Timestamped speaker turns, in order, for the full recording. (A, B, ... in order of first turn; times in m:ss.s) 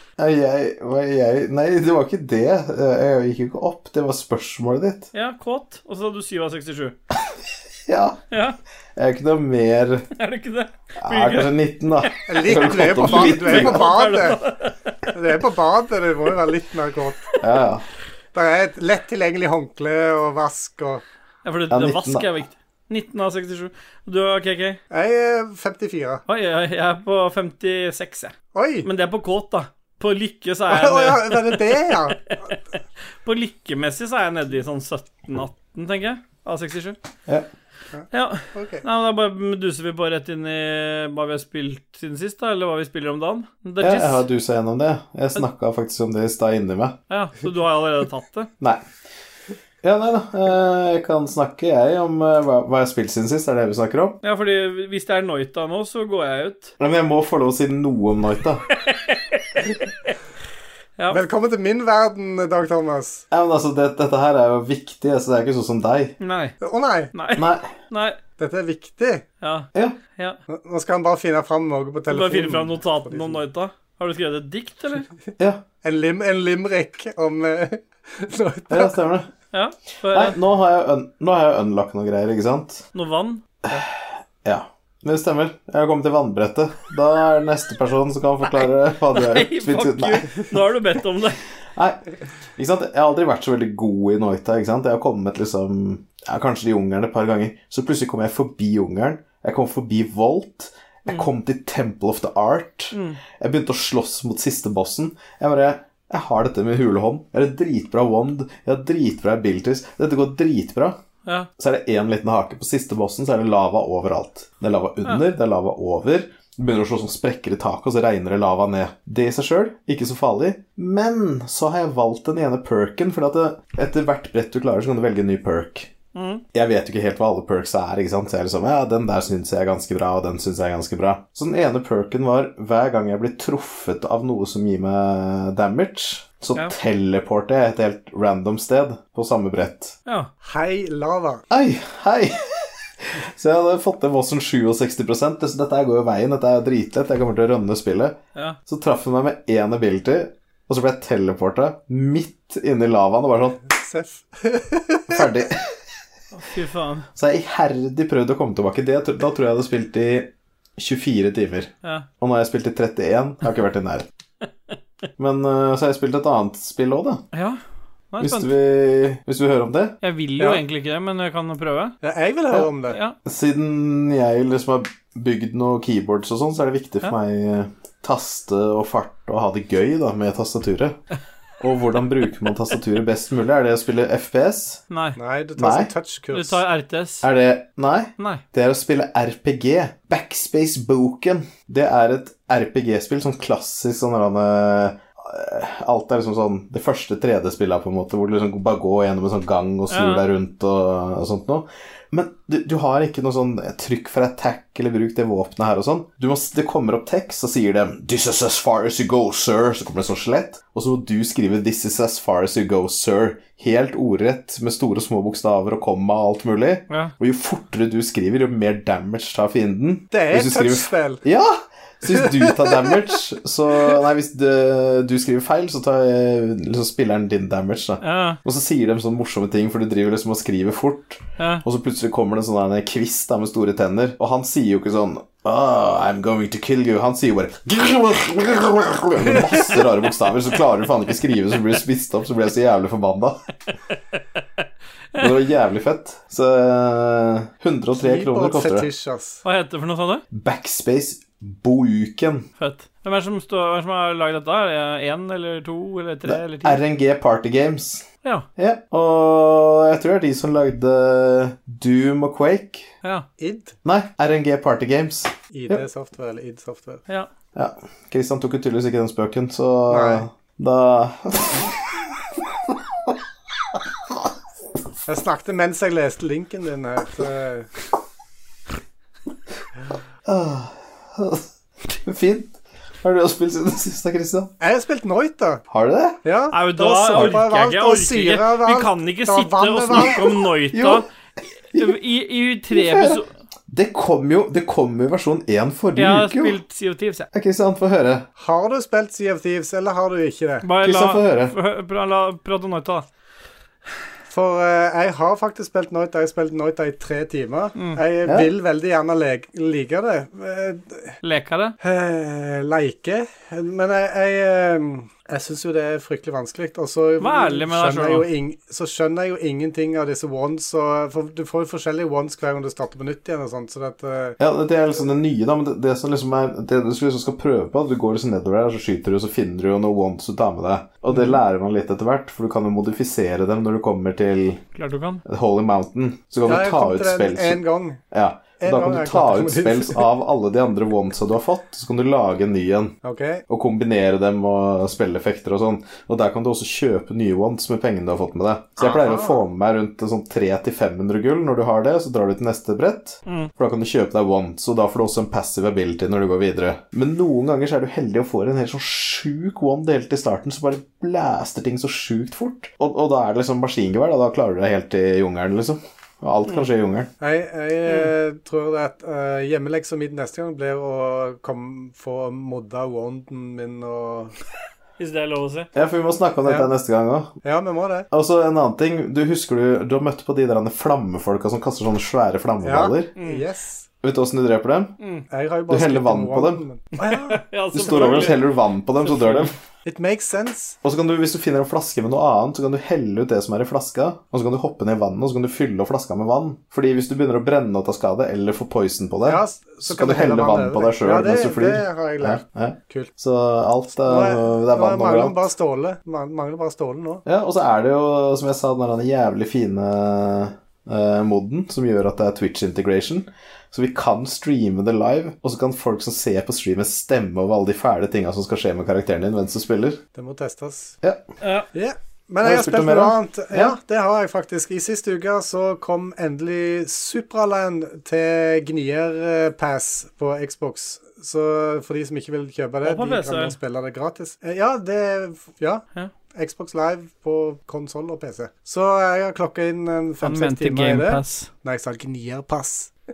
0:00.2-0:05.1 A
0:05.1-0:07.0 B
0:07.9-0:08.2 A
0:08.3-0:08.6 B
0:09.0-0:10.1 A
0:10.1-0:15.0 B
0:11.0-0:13.9 A
0:12.3-0:14.4 C
0:15.1-0:17.3 C
0:17.4-0:17.8 A
0:18.3-0:21.0 C
0:21.4-0:24.8 B
0:21.7-0:22.3 A
0:24.9-0:26.2 C
0:26.3-0:32.6 B
0:28.5-0:28.9 C
0:30.7-0:32.2 C
0:33.2-0:37.0 B
0:37.9-0:38.8 C
0:38.1-0:44.2 B
0:43.8-0:47.0 A
0:47.1-0:48.5 B
0:49.8-0:54.2 A
0:54.2-0:56.7 B
0:56.8-0:58.7 A
0:58.9-0:59.8 B
1:01.1-1:03.3 C
1:03.3-1:06.2 A
1:06.2-1:06.6 B
1:06.6-1:07.1 C
1:07.1-1:08.2 B
1:07.3-1:07.8 A
1:08.4-1:09.3 C
1:09.4-1:10.4 B
1:10.5-1:13.4 C
1:12.1-1:15.1 B
1:15.4-1:15.6 A
1:15.8-1:19.0 C
1:18.7-1:19.3 A
1:19.5-1:20.4 B
1:20.1-1:22.9 A
1:22.9-1:23.4 B
1:23.7-1:30.5 A
1:28.6-1:31.4 B
1:31.8-1:51.0 A
1:42.9-1:43.2 B
1:51.6-2:05.9 A
2:06.1-2:06.4 B
2:06.5-2:20.0 A
2:20.1-2:20.3 B
2:20.4-2:21.4 C
2:21.5-2:33.7 A
2:33.7-2:35.2 C
2:35.1-2:35.8 A
2:36.3-2:37.1 B
2:37.1-2:44.1 A
2:45.2-2:47.2 A
2:47.3-2:47.6 B
2:48.1-2:48.5 B
2:48.2-2:50.0 A
2:50.0-2:51.9 B
2:50.4-2:50.6 C
2:52.0-2:53.0 C
2:52.9-2:53.2 B
2:53.2-3:01.0 A
3:01.6-3:04.8 A
3:04.9-3:05.2 B
3:05.2-3:06.6 C
3:05.6-3:05.9 A
3:06.3-3:07.3 B
3:07.2-4:03.4 A
3:08.2-3:08.4 B
3:19.9-3:20.2 B
3:40.1-3:41.2 C
3:42.0-3:43.1 C
3:48.0-3:48.4 B
3:51.4-3:51.6 B
3:59.3-3:59.6 C
4:05.2-4:08.9 A
4:08.0-4:09.4 C
4:09.4-4:10.2 B
4:10.3-4:12.5 A
4:12.6-4:16.8 B
4:16.3-4:22.9 A
4:23.4-4:23.8 C
4:23.8-4:25.8 A
4:25.5-4:27.0 C
4:27.6-4:31.9 A
4:29.9-4:30.2 C
4:35.1-4:37.7 C
4:40.3-4:44.5 A
4:44.6-4:45.6 C
4:45.7-4:46.2 A
4:46.2-4:50.4 C
4:46.5-4:51.1 B
4:50.7-4:51.0 A
4:51.7-4:53.3 B
4:52.7-4:56.6 A
4:56.0-4:57.3 B
4:57.3-4:58.3 A
4:58.4-5:00.7 C
5:00.6-5:03.0 B
5:00.8-5:01.6 A
5:04.3-5:11.2 C
5:11.2-5:11.8 B
5:11.8-5:24.4 C
5:17.2-5:18.3 B
5:24.4-5:34.6 A
5:31.1-5:31.4 B
5:34.7-5:35.2 B
5:35.3-5:37.6 A
5:36.5-5:38.0 C
5:38.1-5:43.0 A
5:38.6-5:40.1 C
5:43.0-5:43.4 C
5:43.5-6:07.1 A
5:48.8-5:49.4 C
5:53.3-5:53.5 B
6:07.2-6:14.4 C
6:15.0-6:15.7 B
6:15.8-6:17.3 A
6:17.4-6:18.1 C
6:18.1-6:23.1 A
6:22.6-6:23.9 C
6:23.2-6:23.4 B
6:24.0-6:25.0 A
6:25.0-6:25.2 B
6:25.3-6:27.4 C
6:25.7-6:26.6 A
6:27.0-6:28.4 B
6:27.7-6:29.6 A
6:29.0-6:29.5 B
6:29.9-6:30.8 C
6:30.8-6:45.5 A
6:39.2-6:43.1 C
6:44.0-6:47.2 C
6:47.2-7:00.0 A
7:00.2-7:01.0 C
7:01.4-7:01.7 B
7:01.7-7:22.9 C
7:02.4-7:03.8 A
7:12.8-7:13.6 B
7:20.2-7:21.5 B